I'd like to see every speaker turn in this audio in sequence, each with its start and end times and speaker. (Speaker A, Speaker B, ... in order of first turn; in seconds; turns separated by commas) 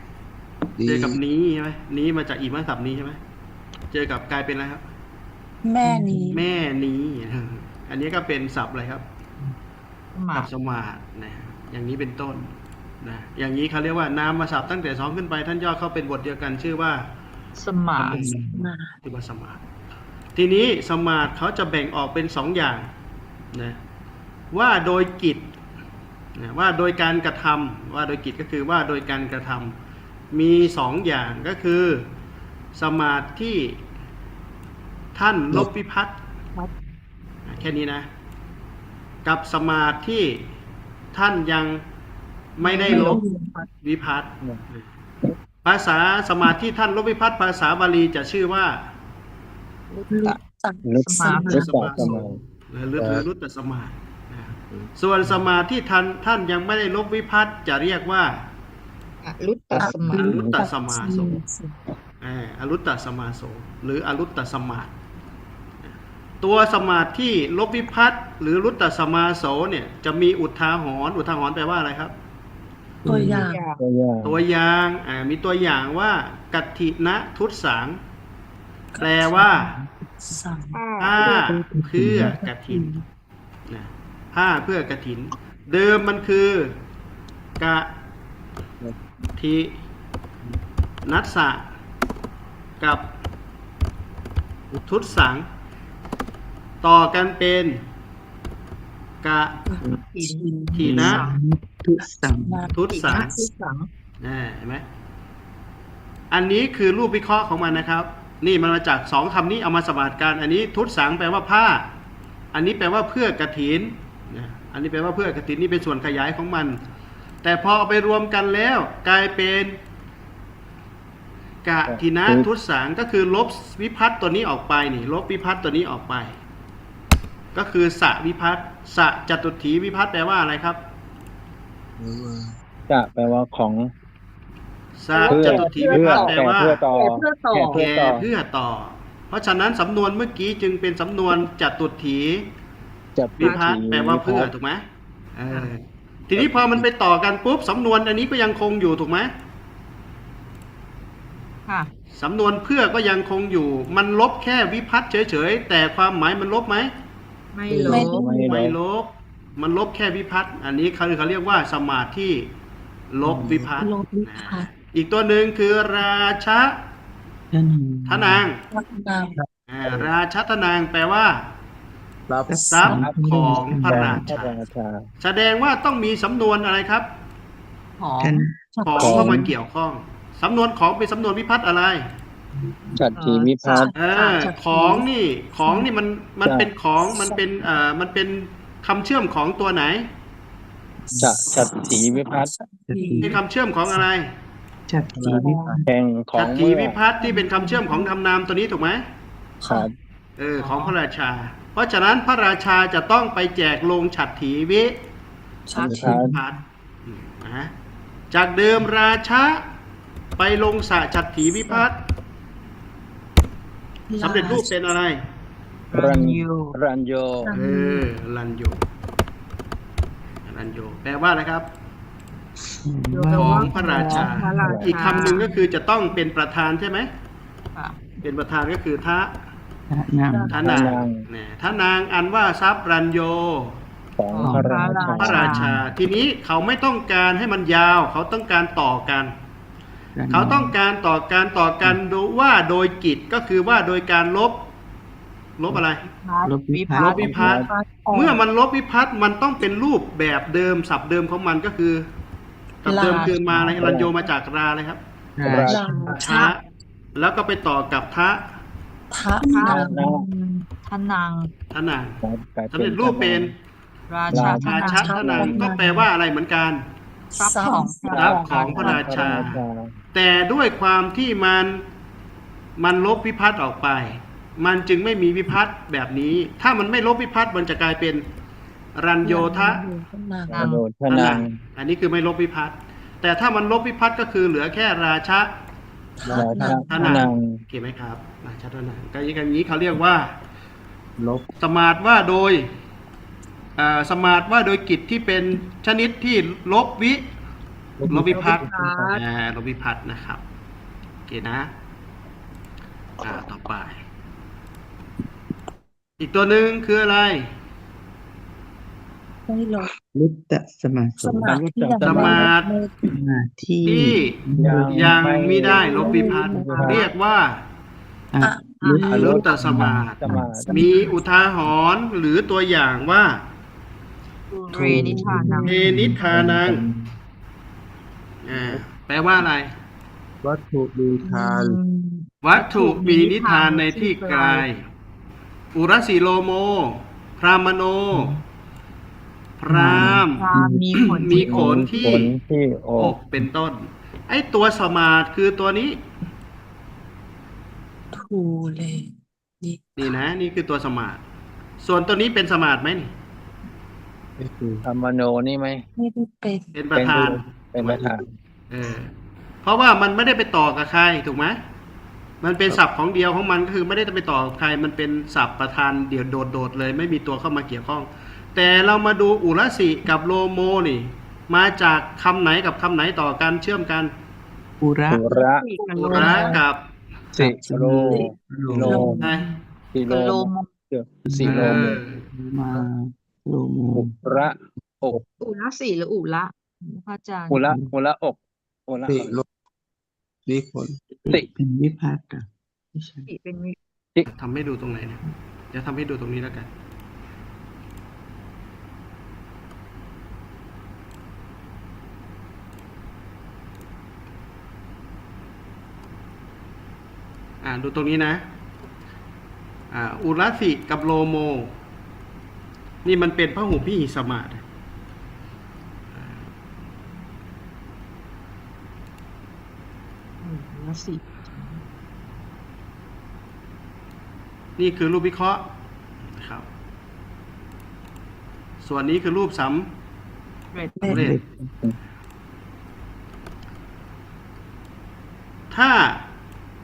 Speaker A: 0.8-1.2, Speaker B: 0.8-3.2, Speaker B: 3.9-4.8, Speaker C: 5.6-6.4, Speaker D: 5.9-6.3, Speaker B: 6.3-9.0, Speaker E: 10.1-10.5, Speaker B: 10.3-17.1, Speaker E: 17.6-18.3, Speaker D: 18.0-18.7, Speaker B: 18.1-18.4, Speaker C: 18.5-18.9, Speaker B: 19.0-19.6, Speaker B: 20.3-22.9, Speaker B: 23.5-23.8, Speaker B: 24.5-25.4, Speaker B: 26.4-29.8, Speaker B: 30.3-32.1, Speaker B: 32.7-33.8, Speaker B: 35.1-36.2, Speaker B: 37.5-38.1, Speaker B: 39.2-40.5, Speaker B: 41.1-41.8, Speaker B: 42.5-43.2, Speaker E: 42.6-43.2, Speaker C: 42.7-43.7, Speaker B: 43.8-44.9, Speaker B: 45.6-48.9, Speaker E: 49.9-50.3, Speaker C: 50.1-51.7, Speaker F: 50.8-52.4, Speaker E: 51.0-51.7, Speaker B: 51.5-58.5, Speaker A: 52.9-53.2, Speaker E: 59.2-60.4, Speaker F: 59.7-60.6, Speaker C: 59.8-61.8, Speaker B: 60.1-61.4, Speaker B: 62.2-64.9, Speaker B: 65.9-72.1, Speaker D: 73.0-73.5, Speaker C: 73.0-73.6, Speaker E: 73.3-73.8, Speaker F: 73.8-74.4, Speaker B: 74.2-78.0, Speaker C: 78.9-79.5, Speaker B: 79.0-79.8, Speaker D: 79.5-79.9, Speaker C: 80.2-81.0, Speaker E: 80.7-81.4, Speaker B: 81.0-82.9, Speaker D: 81.2-82.9, Speaker C: 82.2-82.5, Speaker B: 83.7-86.8, Speaker B: 87.6-87.9, Speaker B: 89.4-89.8, Speaker B: 91.0-91.7, Speaker B: 92.8-93.1, Speaker B: 94.8-95.5, Speaker B: 96.8-97.8, Speaker B: 99.2-99.7, Speaker C: 99.7-101.0, Speaker E: 100.1-101.4, Speaker B: 100.7-101.2, Speaker D: 100.8-102.7, Speaker C: 102.4-103.3, Speaker B: 102.7-103.3, Speaker E: 102.7-103.9, Speaker B: 104.2-104.8, Speaker B: 106.3-111.9, Speaker B: 112.5-116.8, Speaker B: 117.4-119.8, Speaker B: 121.6-126.3, Speaker F: 121.8-122.5, Speaker B: 127.5-130.8, Speaker A: 132.0-132.5, Speaker F: 132.9-133.9, Speaker B: 134.9-136.8, Speaker E: 135.1-137.8, Speaker F: 135.3-138.3, Speaker B: 137.7-142.5, Speaker F: 143.2-144.5, Speaker B: 143.4-144.8, Speaker E: 143.4-143.7, Speaker B: 145.3-149.3, Speaker F: 146.3-146.8, Speaker B: 152.1-156.9, Speaker E: 157.5-158.3, Speaker D: 157.7-158.1, Speaker C: 157.8-158.4, Speaker F: 158.0-158.8, Speaker B: 158.3-162.5, Speaker B: 163.1-166.8, Speaker A: 163.4-163.7, Speaker C: 163.7-164.7, Speaker D: 167.5-168.5, Speaker B: 168.1-168.6, Speaker C: 168.7-169.3, Speaker A: 169.3-170.1, Speaker B: 169.7-171.5, Speaker A: 172.3-172.7, Speaker D: 172.5-174.3, Speaker C: 172.6-173.0, Speaker B: 172.7-174.6, Speaker F: 172.9-175.0, Speaker B: 175.2-177.1, Speaker E: 178.0-178.5, Speaker D: 178.2-179.5, Speaker C: 178.7-179.5, Speaker B: 178.8-182.1, Speaker F: 179.0-179.4, Speaker F: 182.9-183.9, Speaker E: 183.2-185.0, Speaker C: 183.6-185.0, Speaker B: 183.9-190.1, Speaker C: 185.6-185.9, Speaker F: 186.4-186.7, Speaker C: 187.1-187.4, Speaker D: 191.1-191.9, Speaker F: 191.2-192.5, Speaker C: 191.9-193.3, Speaker D: 192.9-193.4, Speaker B: 193.2-194.3, Speaker D: 194.9-195.8, Speaker A: 195.1-195.4, Speaker C: 195.2-195.8, Speaker F: 195.3-197.0, Speaker B: 196.3-199.0, Speaker C: 197.2-198.0, Speaker C: 199.6-199.9, Speaker B: 200.4-205.0, Speaker E: 200.6-200.9, Speaker C: 205.7-206.3, Speaker A: 205.8-206.2, Speaker F: 205.8-206.2, Speaker B: 205.8-207.7, Speaker B: 208.3-209.6, Speaker B: 210.4-212.0, Speaker C: 214.1-214.8, Speaker B: 214.2-215.2, Speaker E: 215.9-216.8, Speaker F: 215.9-217.5, Speaker C: 217.4-218.1, Speaker B: 217.5-218.8, Speaker B: 220.4-221.7, Speaker D: 222.8-224.8, Speaker E: 223.1-225.7, Speaker B: 223.3-227.1, Speaker F: 224.6-225.2, Speaker E: 227.7-228.1, Speaker B: 228.2-229.4, Speaker D: 229.9-230.8, Speaker C: 230.3-230.9, Speaker F: 230.5-231.2, Speaker B: 230.5-233.8, Speaker F: 234.2-235.5, Speaker E: 234.3-235.8, Speaker D: 234.4-235.8, Speaker B: 235.2-239.3, Speaker D: 240.2-240.8, Speaker B: 240.3-244.7, Speaker B: 245.6-246.0, Speaker E: 246.0-247.3, Speaker D: 246.4-247.5, Speaker B: 247.0-252.1, Speaker F: 247.2-247.7, Speaker C: 247.6-248.4, Speaker B: 252.8-255.0, Speaker C: 252.8-253.6, Speaker F: 253.5-254.2, Speaker D: 255.4-256.2, Speaker F: 255.4-255.9, Speaker C: 255.6-256.5, Speaker B: 256.1-256.6, Speaker B: 257.1-258.4, Speaker C: 259.1-260.0, Speaker E: 259.5-261.5, Speaker F: 259.6-260.2, Speaker B: 261.7-263.5, Speaker F: 262.2-263.5, Speaker E: 264.1-265.6, Speaker F: 264.3-265.6, Speaker B: 264.3-266.8, Speaker C: 264.3-266.1, Speaker C: 267.3-268.9, Speaker E: 267.4-269.5, Speaker B: 268.1-269.6, Speaker F: 268.2-269.9, Speaker B: 270.1-271.8, Speaker B: 272.8-278.2, Speaker B: 278.9-279.8, Speaker C: 279.2-280.7, Speaker E: 280.5-280.8, Speaker F: 280.5-281.6, Speaker B: 281.1-285.5, Speaker C: 286.2-287.2, Speaker A: 286.2-286.8, Speaker F: 286.3-287.6, Speaker B: 286.9-290.4, Speaker A: 291.2-291.4, Speaker B: 291.6-292.7, Speaker B: 293.8-297.2, Speaker A: 298.0-298.9, Speaker B: 298.1-300.4, Speaker E: 298.2-299.2, Speaker B: 301.3-301.7, Speaker B: 303.2-304.0, Speaker B: 306.2-307.5, Speaker C: 309.5-309.9, Speaker D: 310.1-311.6, Speaker C: 311.2-313.0, Speaker F: 311.4-312.5, Speaker B: 312.0-312.7, Speaker D: 313.0-315.2, Speaker B: 313.8-317.6, Speaker F: 314.5-317.0, Speaker E: 315.7-317.1, Speaker C: 315.9-316.8, Speaker D: 318.3-320.7, Speaker C: 318.4-319.6, Speaker B: 319.0-323.4, Speaker F: 319.1-320.9, Speaker C: 320.5-321.1, Speaker E: 324.5-325.9, Speaker F: 324.7-327.1, Speaker D: 324.7-326.2, Speaker B: 325.6-326.8, Speaker B: 328.4-329.7, Speaker A: 330.4-331.8, Speaker E: 331.2-334.7, Speaker B: 332.4-334.8, Speaker B: 335.7-338.3, Speaker D: 338.1-338.4, Speaker B: 339.6-340.5, Speaker D: 339.7-340.8, Speaker E: 339.8-341.9, Speaker B: 341.0-342.3, Speaker F: 341.3-343.2, Speaker B: 343.0-346.1, Speaker C: 348.1-350.1, Speaker B: 350.0-351.2, Speaker B: 351.8-353.1, Speaker A: 354.4-354.8, Speaker F: 354.8-355.8, Speaker C: 356.0-356.7, Speaker B: 356.7-358.2, Speaker F: 356.9-358.2, Speaker B: 358.7-359.1, Speaker B: 359.6-361.6, Speaker B: 362.4-374.1, Speaker D: 374.8-375.3, Speaker F: 375.1-375.7, Speaker E: 375.3-376.6, Speaker B: 375.9-376.9, Speaker C: 376.0-376.6, Speaker D: 377.3-379.4, Speaker F: 377.4-379.3, Speaker C: 377.7-379.3, Speaker B: 379.2-379.5, Speaker F: 379.9-381.9, Speaker E: 380.1-380.7, Speaker D: 381.2-384.2, Speaker B: 381.4-382.2, Speaker F: 383.9-385.2, Speaker E: 385.4-387.7, Speaker F: 387.5-389.4, Speaker D: 387.6-387.9, Speaker A: 389.1-389.4, Speaker A: 390.4-391.0, Speaker D: 391.2-393.3, Speaker E: 393.3-393.8, Speaker B: 394.3-396.7, Speaker B: 407.6-408.4, Speaker B: 409.9-411.7, Speaker B: 413.0-414.6, Speaker B: 416.1-416.5, Speaker E: 420.4-421.8, Speaker B: 424.8-425.6, Speaker B: 426.3-426.7, Speaker B: 428.8-429.9, Speaker E: 430.7-431.1, Speaker C: 431.0-431.3, Speaker B: 431.0-431.4, Speaker D: 431.1-431.5, Speaker B: 435.7-436.2